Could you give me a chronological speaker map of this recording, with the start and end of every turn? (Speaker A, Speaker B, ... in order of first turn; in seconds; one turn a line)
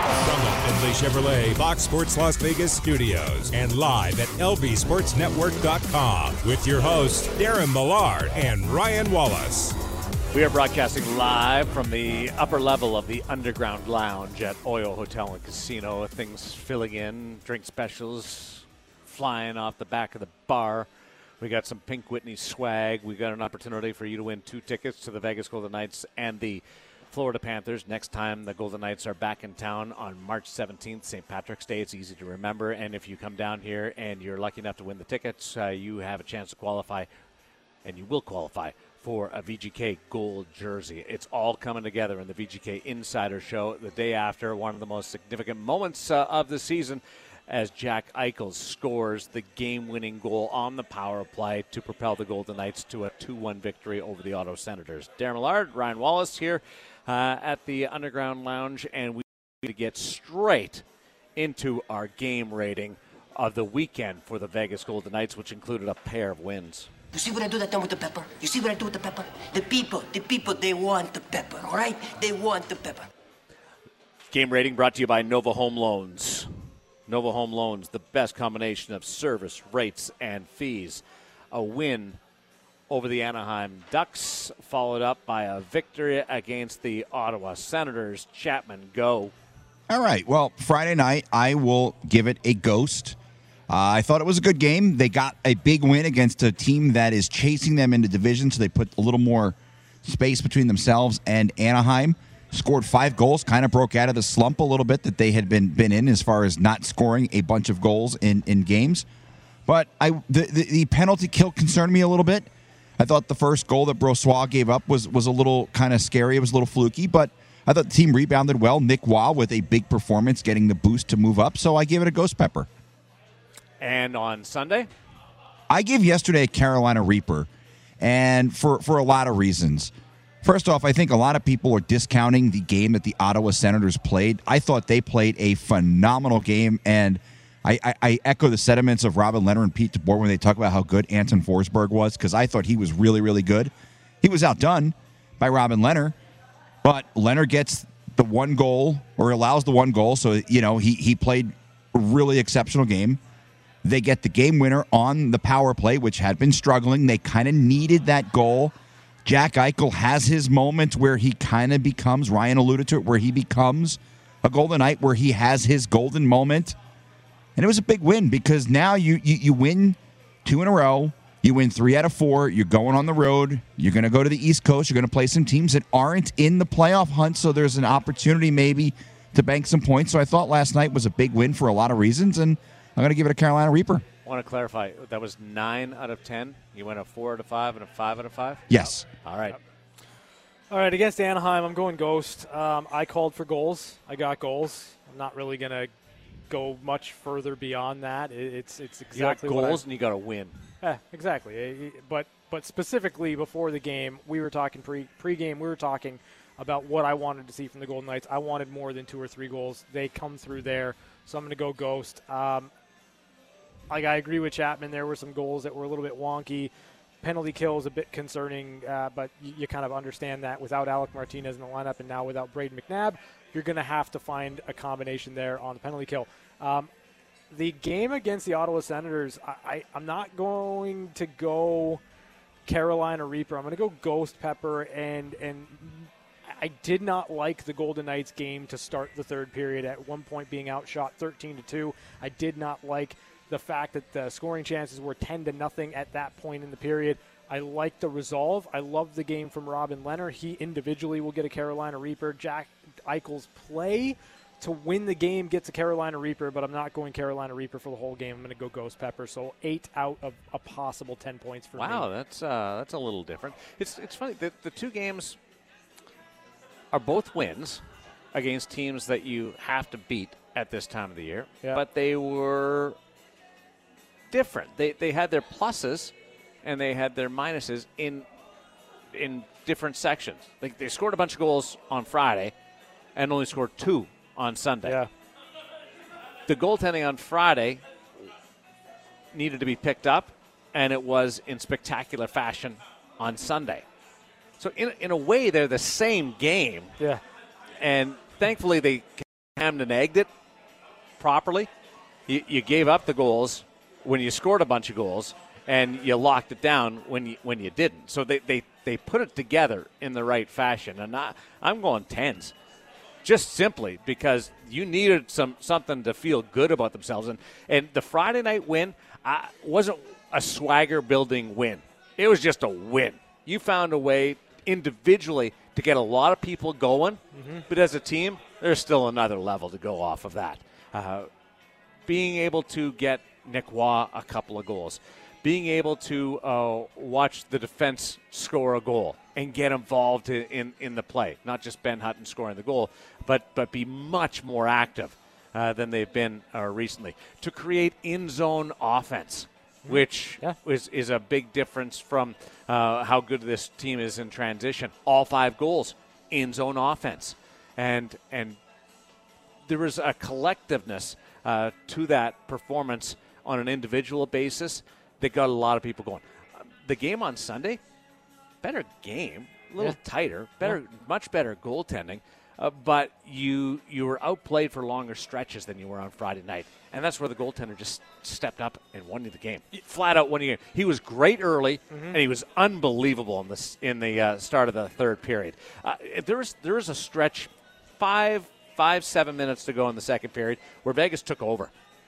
Speaker A: 0.2-9.8
Speaker B: 10.3-20.9
Speaker B: 21.4-37.1
Speaker B: 37.9-60.8
Speaker B: 61.4-66.9
Speaker C: 67.1-73.1
Speaker B: 74.3-76.5
Speaker B: 77.1-82.2
Speaker B: 82.9-89.3
Speaker D: 89.9-93.2
Speaker D: 93.7-109.1
Speaker D: 109.7-112.5
Speaker D: 113.0-122.7
Speaker B: 123.8-124.9
Speaker D: 125.7-127.5
Speaker D: 128.0-129.9
Speaker D: 130.4-143.7
Speaker D: 144.2-146.2
Speaker D: 146.8-153.2
Speaker D: 153.8-158.7
Speaker D: 159.2-166.8
Speaker D: 167.6-184.1
Speaker B: 184.2-188.7
Speaker D: 188.7-189.1
Speaker B: 189.2-189.6
Speaker E: 190.7-195.9
Speaker E: 196.5-199.8
Speaker B: 199.1-200.6
Speaker E: 200.8-212.7
Speaker E: 213.9-216.7
Speaker E: 217.2-226.9
Speaker E: 227.5-232.0
Speaker E: 232.7-262.1
Speaker B: 261.8-265.4
Speaker B: 266.9-267.8
Speaker B: 268.3-273.0
Speaker B: 274.3-278.3
Speaker B: 279.1-282.5
Speaker B: 283.1-285.0
Speaker B: 286.5-287.8
Speaker B: 289.3-293.9
Speaker B: 294.6-296.9
Speaker B: 297.8-300.3
Speaker B: 301.2-301.7
Speaker B: 302.3-312.5
Speaker B: 313.2-331.3
Speaker E: 327.4-327.7
Speaker B: 332.1-358.6
Speaker E: 349.9-350.6
Speaker B: 359.7-367.8
Speaker B: 368.6-391.7
Speaker E: 381.9-382.2